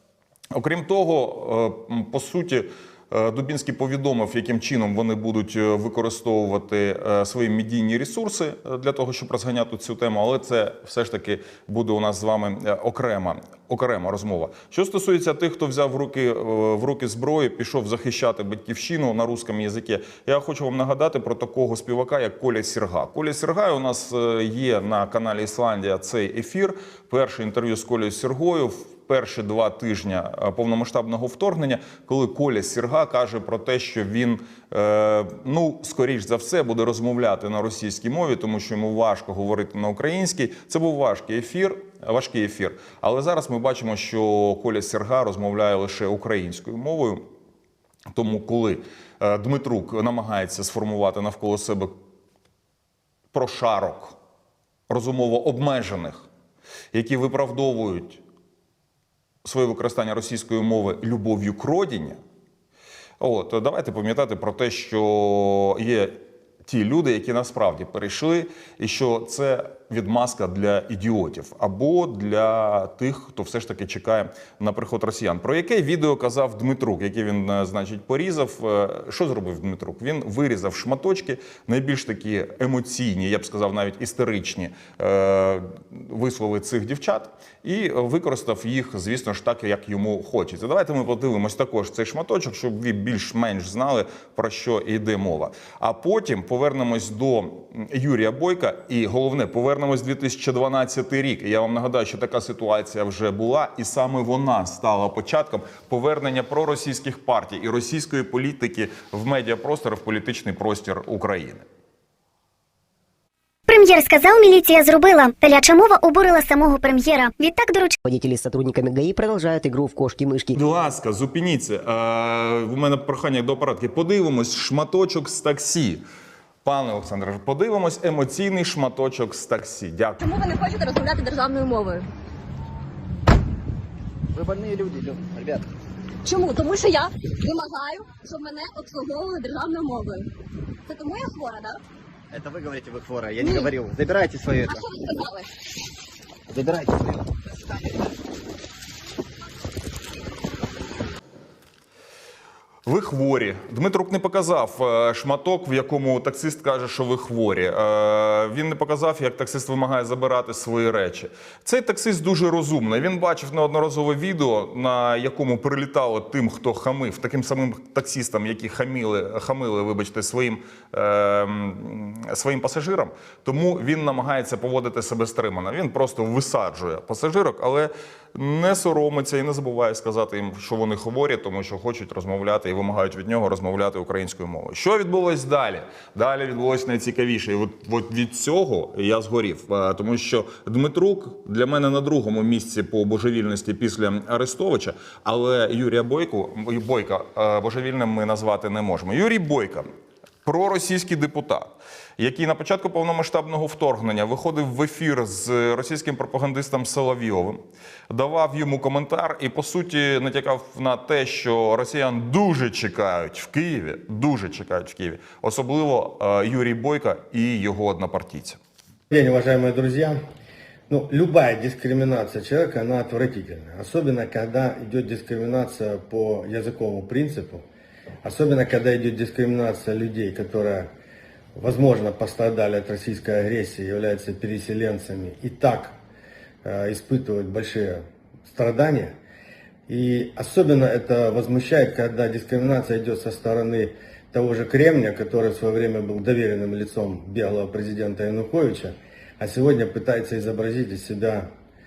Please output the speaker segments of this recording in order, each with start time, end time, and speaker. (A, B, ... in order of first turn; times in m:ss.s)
0:00.5-0:47.3 A
0:48.1-0:52.0 A
0:53.3-0:54.2 A
0:54.9-0:56.2 A
0:56.9-0:58.2 A
0:59.4-1:02.2 A
1:03.2-1:51.7 A
1:53.7-1:58.0 B
1:58.0-2:00.6 C
2:00.6-2:06.0 A
2:06.6-2:10.2 A
2:10.2-2:12.1 D
2:14.3-2:15.6 E
2:16.2-2:20.3 D
2:20.9-2:21.8 D
2:22.3-2:24.9 E
2:23.4-2:23.7 D
2:24.7-2:25.5 D
2:26.5-2:27.3 E
2:32.9-3:19.9 A
3:20.4-3:38.6 A
3:39.1-3:40.2 F
3:40.9-3:47.7 F
3:48.2-3:50.9 F
3:51.6-3:56.0 F
3:56.6-3:59.2 F
3:59.9-4:11.5 F